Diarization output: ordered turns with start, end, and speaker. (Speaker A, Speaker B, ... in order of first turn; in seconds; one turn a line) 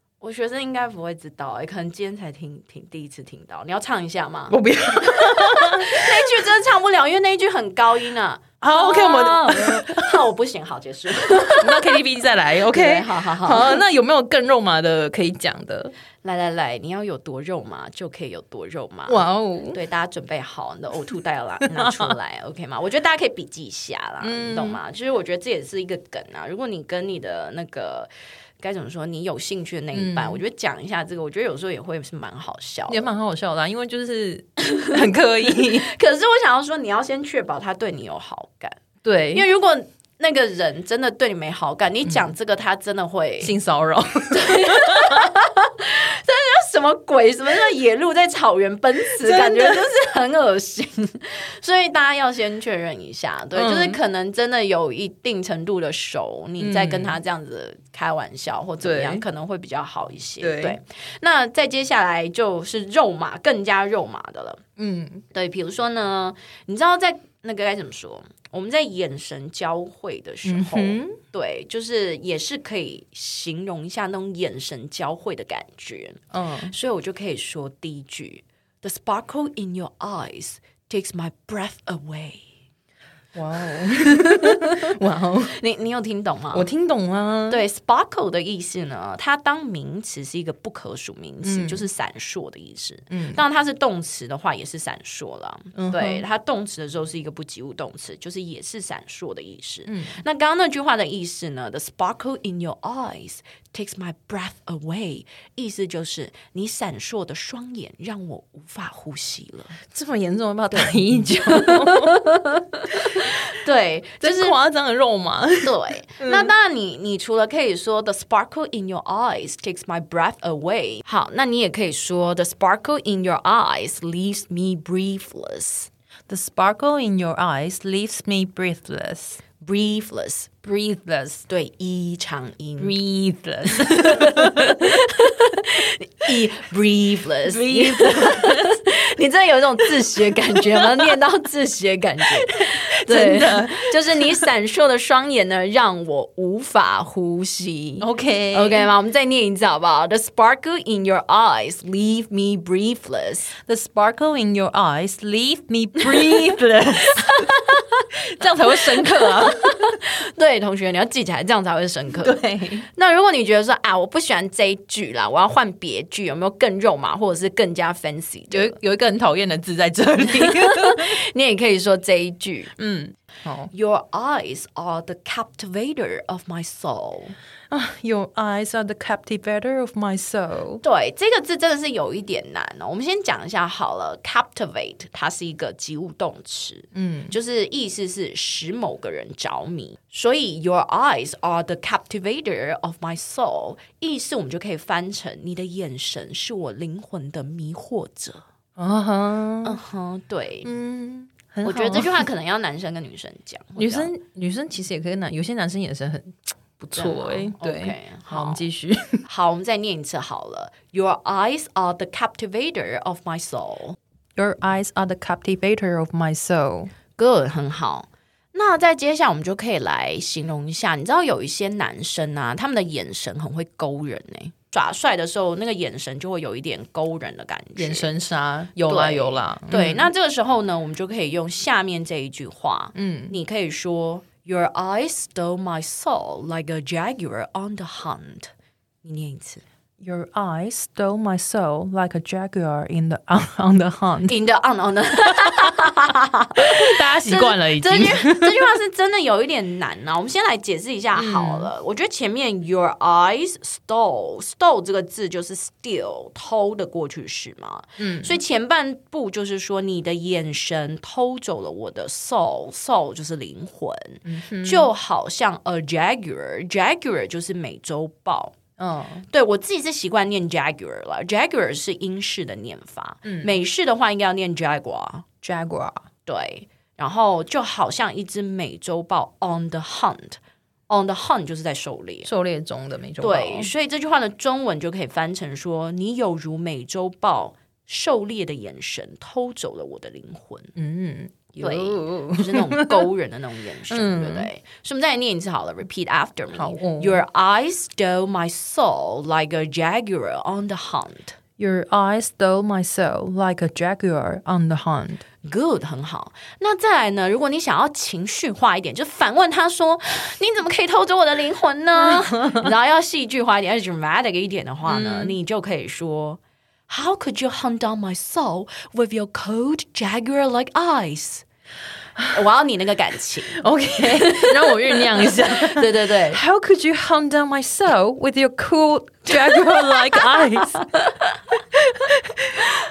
Speaker A: 0.2-12.0
Speaker B: 4.5-6.3
Speaker B: 8.6-10.3
Speaker B: 11.3-15.9
Speaker A: 12.7-13.8
Speaker A: 16.2-33.1
Speaker B: 19.1-19.8
Speaker B: 21.6-22.1
Speaker B: 24.2-24.8
Speaker B: 29.9-30.4
Speaker B: 32.9-35.9
Speaker A: 34.7-35.0
Speaker A: 35.5-38.8
Speaker B: 39.0-39.5
Speaker A: 39.3-43.6
Speaker B: 43.4-45.3
Speaker A: 44.3-64.6
Speaker B: 49.2-49.9
Speaker B: 53.5-54.0
Speaker B: 56.6-57.2
Speaker B: 58.8-59.2
Speaker B: 60.4-60.8
Speaker B: 64.8-65.2
Speaker A: 65.3-82.5
Speaker B: 70.5-71.2
Speaker B: 76.3-76.7
Speaker B: 83.3-85.6
Speaker A: 84.3-84.8
Speaker A: 85.5-86.7
Speaker B: 86.5-87.6
Speaker A: 87.5-109.8
Speaker B: 91.4-91.8
Speaker B: 93.1-93.4
Speaker B: 95.8-96.2
Speaker B: 99.9-100.2
Speaker B: 109.9-112.2
Speaker A: 110.8-114.6
Speaker B: 114.2-116.5
Speaker A: 115.6-125.9
Speaker B: 126.3-129.4
Speaker A: 129.6-130.7
Speaker B: 130.6-131.4
Speaker A: 131.4-133.0
Speaker B: 132.8-134.9
Speaker A: 133.7-153.6
Speaker B: 137.4-138.8
Speaker B: 140.7-141.1
Speaker B: 142.6-144.5
Speaker B: 148.0-148.9
Speaker B: 153.7-157.5
Speaker A: 156.0-156.5
Speaker A: 157.1-157.9
Speaker B: 158.3-159.9
Speaker A: 158.8-162.4
Speaker B: 162.2-162.8
Speaker A: 162.9-168.8
Speaker B: 168.5-171.2
Speaker A: 170.2-172.7
Speaker B: 172.8-173.7
Speaker A: 173.7-177.4
Speaker B: 177.7-180.8
Speaker A: 180.8-198.4
Speaker B: 186.9-187.4
Speaker B: 198.8-199.8
Speaker A: 199.6-200.7
Speaker B: 200.6-202.3
Speaker A: 201.7-204.1
Speaker B: 203.8-209.2
Speaker A: 207.0-208.7
Speaker A: 209.3-214.0
Speaker B: 214.4-216.9
Speaker A: 217.2-228.1
Speaker B: 227.8-230.1
Speaker A: 228.8-238.5
Speaker B: 232.9-233.4
Speaker A: 239.0-239.6
Speaker B: 240.0-244.4
Speaker A: 244.3-268.6
Speaker B: 246.6-248.7
Speaker B: 251.2-251.7
Speaker B: 258.0-258.4
Speaker B: 264.3-264.9
Speaker B: 268.8-269.3
Speaker A: 269.3-275.3
Speaker B: 273.2-273.5
Speaker B: 275.4-276.0
Speaker A: 276.3-282.3
Speaker B: 282.2-283.7
Speaker A: 283.2-290.7
Speaker B: 290.8-293.1
Speaker A: 291.6-301.4
Speaker B: 293.9-294.5
Speaker B: 296.5-297.2
Speaker B: 301.6-305.2
Speaker A: 305.4-321.4
Speaker B: 314.9-315.4
Speaker A: 322.3-326.4
Speaker B: 323.5-330.9
Speaker A: 329.3-330.6
Speaker B: 331.9-332.5